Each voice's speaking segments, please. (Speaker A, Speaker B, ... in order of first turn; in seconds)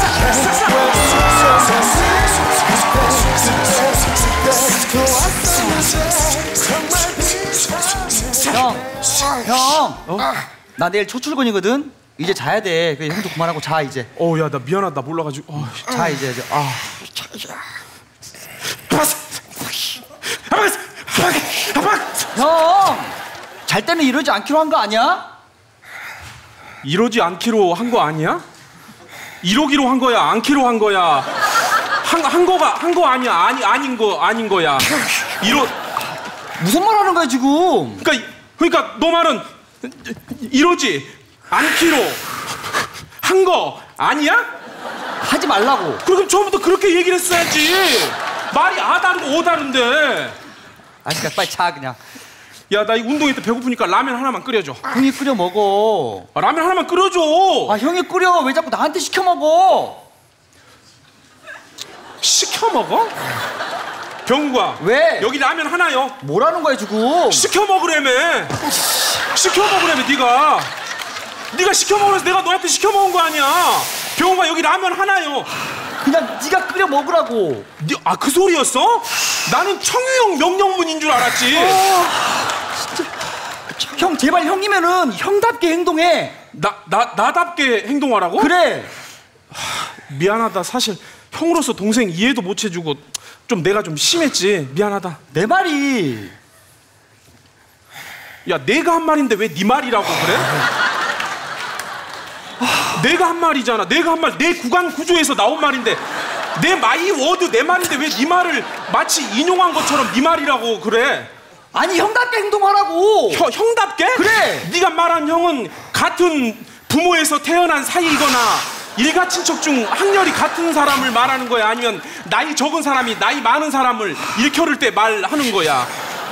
Speaker A: 0.2-1.7, 14.2-15.9, 20.5-22.3, 26.8-28.4, 29.4-31.3, 32.0-35.7, 38.0-42.2, 43.2-44.5, 46.0-50.4, 52.7-54.9, 56.4-57.8, 62.2-63.2, 64.3-66.2, 67.3-68.6, 69.3-70.7, 71.5-75.5, 77.8-81.8, 86.5-88.5, 89.5-95.2, 98.5-100.6, 102.9-111.3, 113.3-125.9
Speaker B: 4.8-5.7, 8.4-14.1, 15.9-16.9, 22.4-23.1, 23.7-25.3, 36.6-38.0, 45.2-46.0, 51.0-52.0, 54.9-56.3, 57.7-60.0, 64.8-65.3, 66.2-67.5, 76.0-77.7, 81.5-83.1, 83.8-86.4, 88.4-88.9, 95.3-96.3, 111.7-113.5, 114.1-114.7